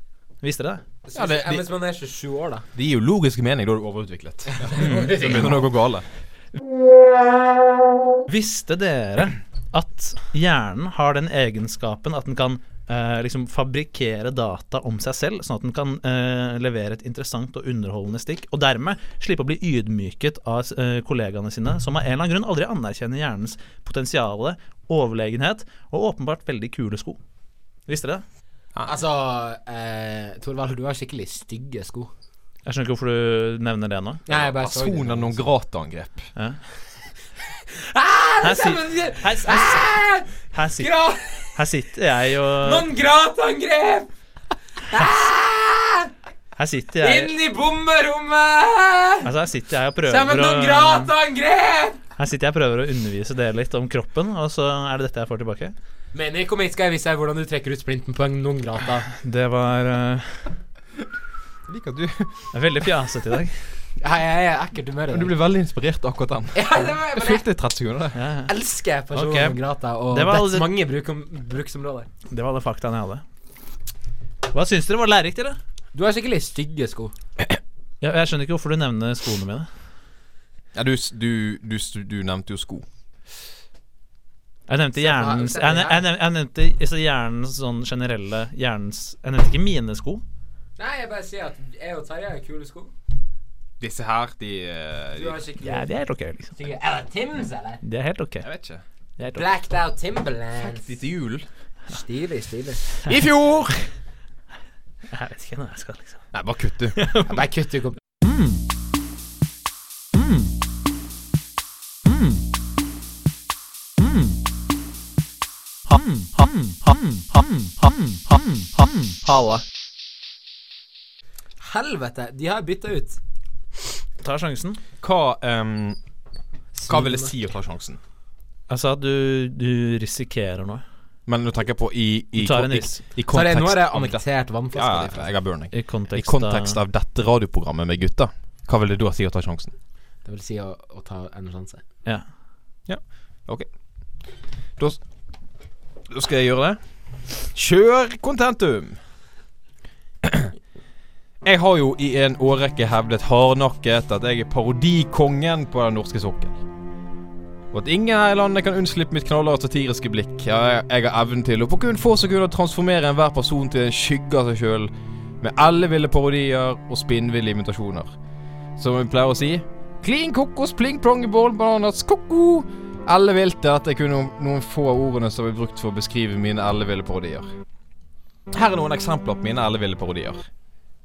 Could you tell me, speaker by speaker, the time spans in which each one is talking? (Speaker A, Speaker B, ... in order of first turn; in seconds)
Speaker A: 0.4-0.8, 4.8-5.5, 8.3-27.2, 27.9-28.2, 32.6-34.2, 38.4-39.9, 40.5-40.9, 41.5-42.9, 46.6-47.3, 49.2-51.1, 52.2-55.7, 59.1-60.5, 62.5-63.6, 68.1-68.5, 69.1-69.6, 70.1-70.7, 72.3-73.2, 74.5-75.6, 78.0-79.7, 84.7-90.2, 95.6-96.5, 97.8-98.5, 99.2-99.4, 105.1-106.2, 107.0-107.5, 108.2-108.6, 110.1-110.5, 112.0-112.4, 114.0-114.4, 115.8-119.6, 124.2-124.8, 128.7-130.8, 132.4-133.0, 135.7-136.8
Speaker B: 1.0-2.6, 4.5-5.7, 28.9-32.1, 34.2-35.5, 37.7-41.6, 42.6-44.1, 44.9-46.1, 47.0-49.3, 50.0-52.0, 56.1-59.1, 64.0-65.3, 66.5-67.4, 68.5-72.1, 75.9-77.1, 85.0-86.0, 90.8-92.9, 95.1-95.9, 96.5-97.8, 99.3-100.9, 101.9-102.8, 107.3-108.0, 121.6-123.2, 126.7-127.3, 133.3-135.3, 140.2-141.8
Speaker C: 1.1-1.6, 2.7-6.0, 34.3-36.3, 61.7-62.5, 65.1-68.2, 80.7-82.8, 93.8-95.4, 98.4-98.8, 100.6-101.5, 103.0-103.9, 106.3-107.0, 125.0-126.0, 126.8-128.0, 131.3-139.7, 142.9-143.7, 146.1-146.8, 147.5-149.0, 150.2-150.5, 151.4-156.6, 157.7-168.1, 168.8-177.5, 178.5-180.5